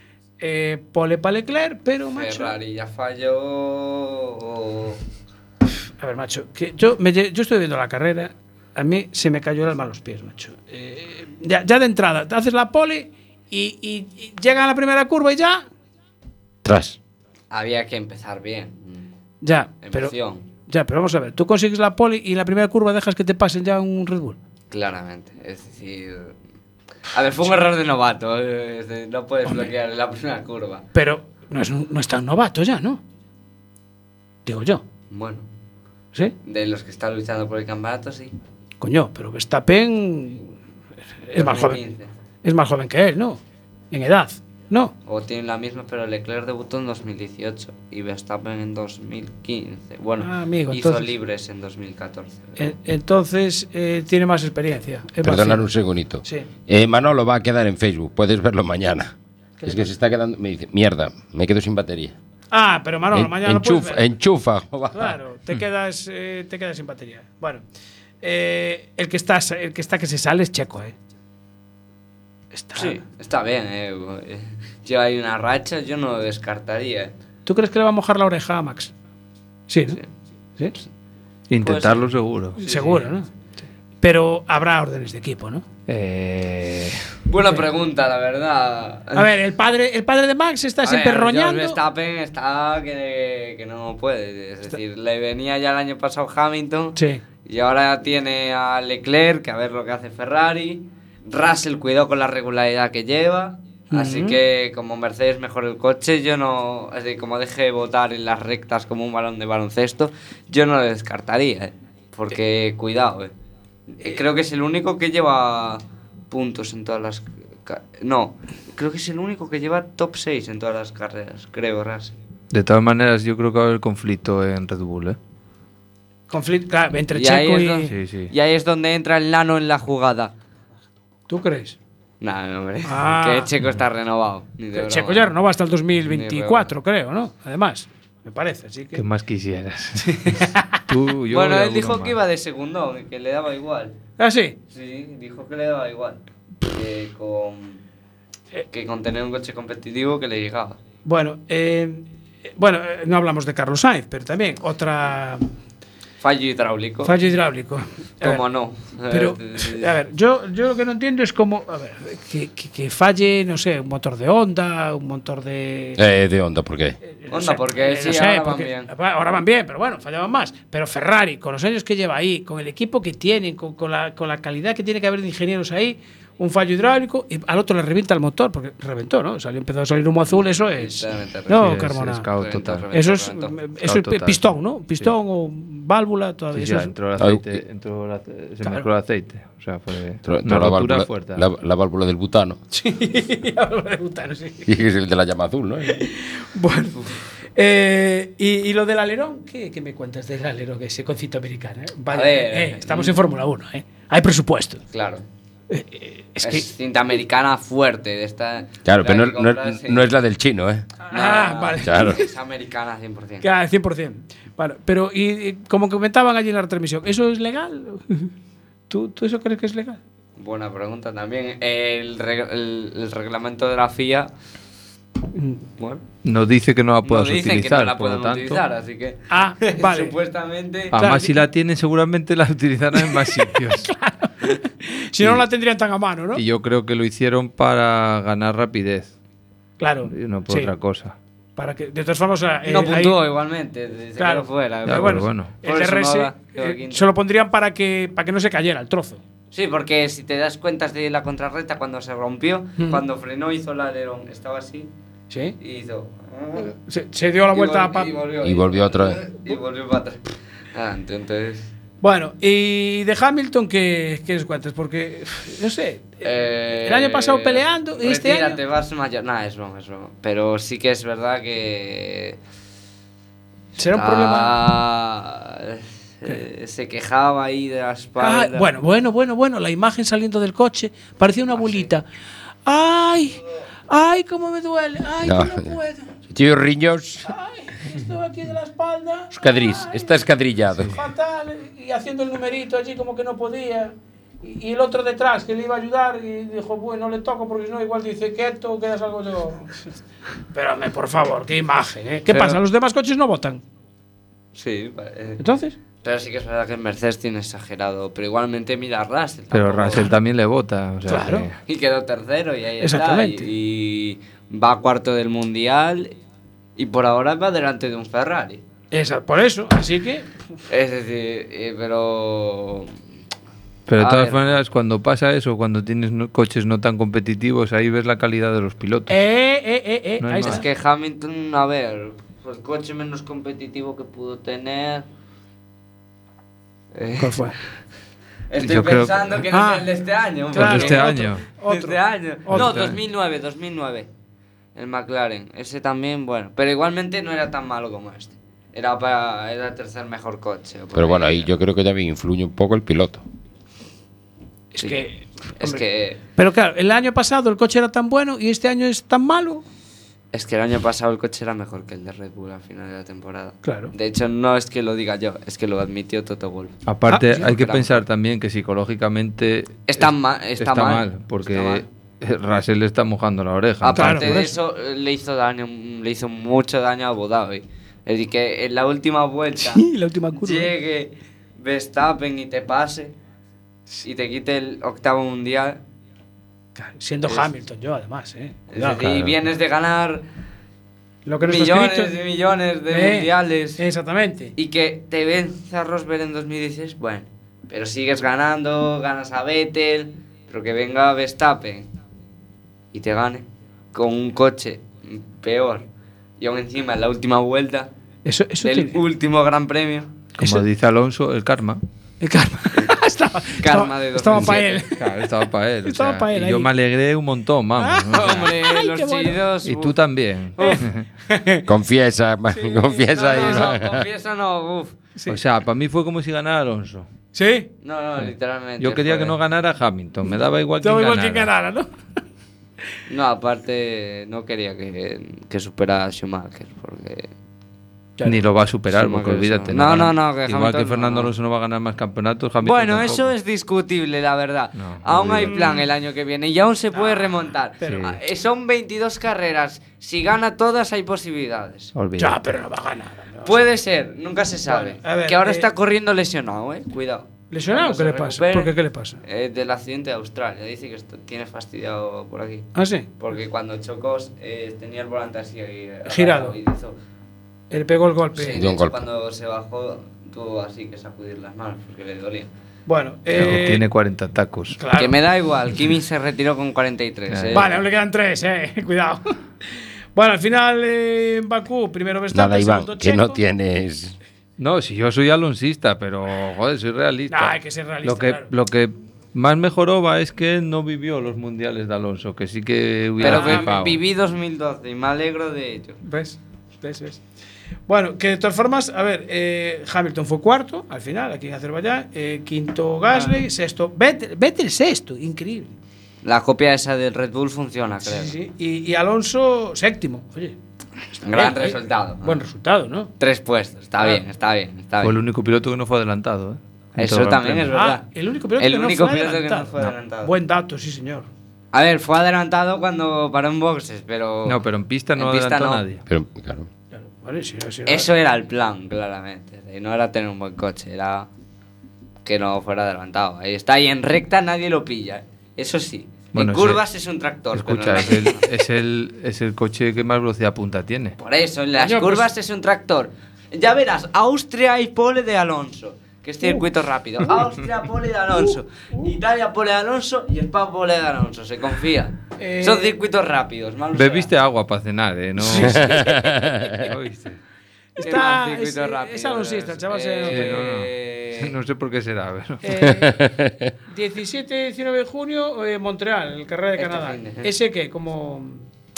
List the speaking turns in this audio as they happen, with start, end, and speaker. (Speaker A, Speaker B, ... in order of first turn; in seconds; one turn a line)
Speaker A: 0.4-2.5
Speaker B: 2.1-5.0
Speaker A: 6.0-15.6
Speaker C: 16.6-17.0
Speaker B: 17.5-19.1
Speaker A: 19.4-20.1
Speaker B: 19.8-20.5
Speaker A: 20.7-24.4
Speaker B: 24.7-26.3
Speaker B: 27.1-30.8
Speaker A: 30.9-33.0
Speaker A: 34.5-34.8
Speaker B: 35.1-35.5
Speaker B: 36.5-38.3
Speaker A: 38.8-40.5
Speaker A: 41.3-41.8
Speaker B: 41.4-42.1
Speaker A: 42.4-43.4
Speaker A: 43.9-44.9
Speaker B: 45.1-52.7
Speaker A: 50.2-51.1
Speaker A: 52.6-55.7
Speaker C: 55.2-59.1
Speaker A: 59.6-59.9
Speaker C: 59.7-62.2
Speaker A: 62.5-64.1
Speaker C: 63.1-65.1
Speaker A: 64.9-67.6
Speaker A: 68.2-71.0
Speaker A: 72.5-73.0
Speaker B: 72.8-77.1
Speaker A: 77.5-78.9
Speaker A: 79.7-80.0
Speaker D: 81.5-82.6
Speaker B: 81.6-83.1
Speaker A: 82.6-83.3
Speaker A: 84.0-85.7
Speaker D: 85.9-87.1
Speaker B: 87.3-89.3
Speaker A: 89.1-91.8
Speaker B: 90.8-113.3
Speaker A: 97.0-97.2
Speaker A: 103.9-104.4
Speaker B: 114.0-122.2
Speaker D: 122.5-125.2
Speaker A: 126.3-127.9
Speaker B: 127.1-130.3
Speaker D: 127.9-128.3
Speaker A: 131.3-131.8
Speaker B: 132.2-135.3
Speaker A: 132.8-133.5
Speaker A: 134.7-139.0
Speaker B: 136.0-136.7
Speaker D: 138.9-142.2
Speaker A: 140.3-140.8
Speaker B: 141.3-143.9
Speaker A: 144.2-144.6
Speaker B: 144.7-147.8
Speaker B: 148.7-150.8
Speaker A: 151.1-155.4
Speaker B: 156.2-157.2
Speaker A: 157.0-158.4
Speaker B: 158.2-159.9
Speaker A: 159.1-166.0
Speaker C: 166.0-167.0
Speaker A: 167.0-182.3
Speaker B: 167.3-168.9
Speaker B: 180.3-181.8
Speaker D: 181.5-182.9
Speaker B: 182.3-183.6
Speaker A: 182.9-186.9
Speaker D: 183.8-185.1
Speaker D: 186.5-191.4
Speaker C: 187.2-187.5
Speaker C: 190.2-192.6
Speaker A: 192.7-194.7
Speaker C: 194.7-196.0
Speaker A: 195.8-204.8
Speaker B: 202.1-203.2
Speaker B: 204.9-205.2
Speaker A: 205.7-206.7
Speaker B: 206.4-210.1
Speaker C: 208.8-210.9
Speaker A: 211.1-212.3
Speaker B: 211.1-213.5
Speaker C: 211.8-212.2
Speaker A: 213.4-218.3
Speaker A: 218.9-220.0
Speaker B: 220.4-224.3
Speaker A: 225.3-225.6
Speaker B: 225.8-226.0
Speaker D: 226.2-228.6
Speaker B: 227.0-231.0
Speaker A: 229.3-230.1
Speaker D: 230.9-233.9
Speaker A: 230.9-231.4
Speaker A: 233.8-236.4
Speaker D: 236.3-239.2
Speaker A: 239.8-240.7
Speaker D: 240.1-241.2
Speaker A: 241.6-243.2
Speaker B: 242.7-247.0
Speaker A: 244.2-249.2
Speaker D: 244.9-245.6
Speaker B: 249.5-254.9
Speaker A: 252.8-253.0
Speaker A: 255.3-255.6
Speaker B: 255.6-256.7
Speaker A: 256.6-258.1
Speaker B: 257.5-261.7
Speaker C: 258.4-259.4
Speaker A: 262.0-266.3
Speaker B: 266.2-272.4
Speaker A: 266.8-268.6
Speaker A: 273.8-274.6
Speaker B: 273.9-278.7
Speaker A: 278.2-282.0
Speaker B: 281.6-281.9
Speaker A: 282.6-286.1
Speaker C: 285.2-285.7
Speaker C: 286.3-287.3
Speaker A: 287.2-290.2
Speaker C: 289.3-290.9
Speaker A: 290.8-299.7
Speaker A: 300.5-303.6
Speaker B: 302.3-302.6
Speaker B: 304.6-305.4
Speaker A: 305.4-305.8
Speaker B: 306.0-310.1
Speaker D: 309.5-311.6
Speaker A: 311.1-311.5
Speaker B: 311.7-316.1
Speaker A: 312.8-313.5
Speaker B: 316.8-318.6
Speaker A: 318.9-320.3
Speaker B: 320.7-322.9
Speaker D: 323.9-329.2
Speaker B: 324.0-324.6
Speaker A: 329.1-330.6
Speaker D: 330.2-330.7
Speaker B: 330.4-335.1
Speaker B: 336.9-337.5
Speaker A: 337.2-337.6
Speaker B: 338.5-344.1
Speaker D: 338.6-339.4
Speaker A: 339.5-339.9
Speaker A: 340.5-342.8
Speaker D: 340.6-341.4
Speaker D: 342.5-343.0
Speaker B: 344.8-351.5
Speaker C: 350.9-353.2
Speaker A: 354.7-355.8
Speaker B: 355.6-356.2
Speaker A: 356.4-359.6
Speaker B: 360.3-366.8
Speaker A: 363.6-363.9
Speaker D: 366.9-374.4
Speaker A: 367.1-367.5
Speaker B: 367.3-368.0
Speaker B: 369.9-371.9
Speaker B: 373.8-379.8
Speaker A: 373.9-374.6
Speaker A: 379.6-380.7
Speaker B: 380.4-383.1
Speaker B: 384.0-385.8
Speaker A: 386.8-389.1
Speaker B: 388.7-390.2
Speaker D: 388.8-389.4
Speaker A: 391.3-392.1
Speaker B: 391.4-393.8
Speaker A: 392.9-394.5
Speaker B: 394.6-401.9
Speaker B: 402.9-405.9
Speaker B: 406.4-407.9
Speaker A: 408.3-409.0
Speaker B: 408.6-410.1
Speaker A: 410.4-410.6
Speaker D: 410.4-411.8
Speaker A: 412.2-415.0
Speaker B: 413.6-414.8
Speaker D: 414.3-418.5
Speaker A: 415.9-416.7
Speaker A: 417.8-419.4
Speaker B: 418.1-419.9
Speaker D: 419.6-421.1
Speaker B: 420.6-420.9
Speaker A: 420.6-421.7
Speaker C: 421.7-424.1
Speaker A: 422.5-423.7
Speaker B: 423.1-425.0
Speaker D: 425.3-427.1
Speaker A: 427.4-427.7
Speaker B: 427.8-429.4
Speaker D: 428.2-431.5
Speaker A: 430.8-431.9
Speaker B: 433.1-437.3
Speaker D: 438.2-443.3
Speaker B: 438.9-441.3
Speaker B: 442.6-451.9
Speaker D: 444.8-445.6
Speaker A: 445.4-445.8
Speaker A: 446.9-448.1
Speaker D: 447.8-448.2
Speaker D: 451.9-452.5
Speaker A: 452.2-453.6
Speaker B: 453.4-458.7
Speaker A: 454.7-455.7
Speaker A: 457.5-459.2
Speaker B: 459.2-466.9
Speaker A: 462.8-463.1
Speaker A: 466.1-466.6
Speaker A: 467.7-468.6
Speaker B: 468.4-472.5
Speaker C: 468.6-469.0
Speaker A: 472.9-473.9
Speaker D: 473.3-474.8
Speaker A: 474.8-475.2
Speaker B: 474.9-477.8
Speaker D: 477.3-477.7
Speaker A: 477.5-479.4
Speaker A: 480.2-483.4
Speaker C: 482.3-484.2
Speaker D: 484.6-494.0
Speaker A: 487.3-488.5
Speaker A: 493.2-493.8
Speaker B: 493.2-496.0
Speaker A: 496.0-497.2
Speaker A: 497.9-505.7
Speaker B: 503.1-503.4
Speaker B: 506.2-508.3
Speaker A: 508.0-510.6
Speaker B: 511.2-512.4
Speaker A: 511.2-513.1
Speaker B: 513.2-515.2
Speaker A: 514.0-514.2
Speaker D: 515.0-517.7
Speaker B: 517.0-518.0
Speaker A: 517.7-521.3
Speaker B: 518.6-520.3
Speaker B: 521.7-524.6
Speaker D: 524.5-526.0
Speaker B: 525.2-525.8
Speaker C: 526.1-526.7
Speaker A: 526.9-528.1
Speaker B: 527.9-531.3
Speaker B: 532.2-538.5
Speaker D: 536.3-536.8
Speaker D: 537.5-541.2
Speaker B: 541.2-554.3
Speaker A: 541.8-542.3
Speaker A: 548.5-549.1
Speaker A: 552.4-553.0
Speaker D: 554.0-557.4
Speaker A: 555.4-556.0
Speaker C: 555.6-556.9
Speaker A: 558.0-560.6
Speaker B: 558.0-561.5
Speaker D: 560.3-562.6
Speaker A: 562.6-563.2
Speaker C: 562.8-563.7
Speaker A: 563.9-568.6
Speaker B: 566.8-567.5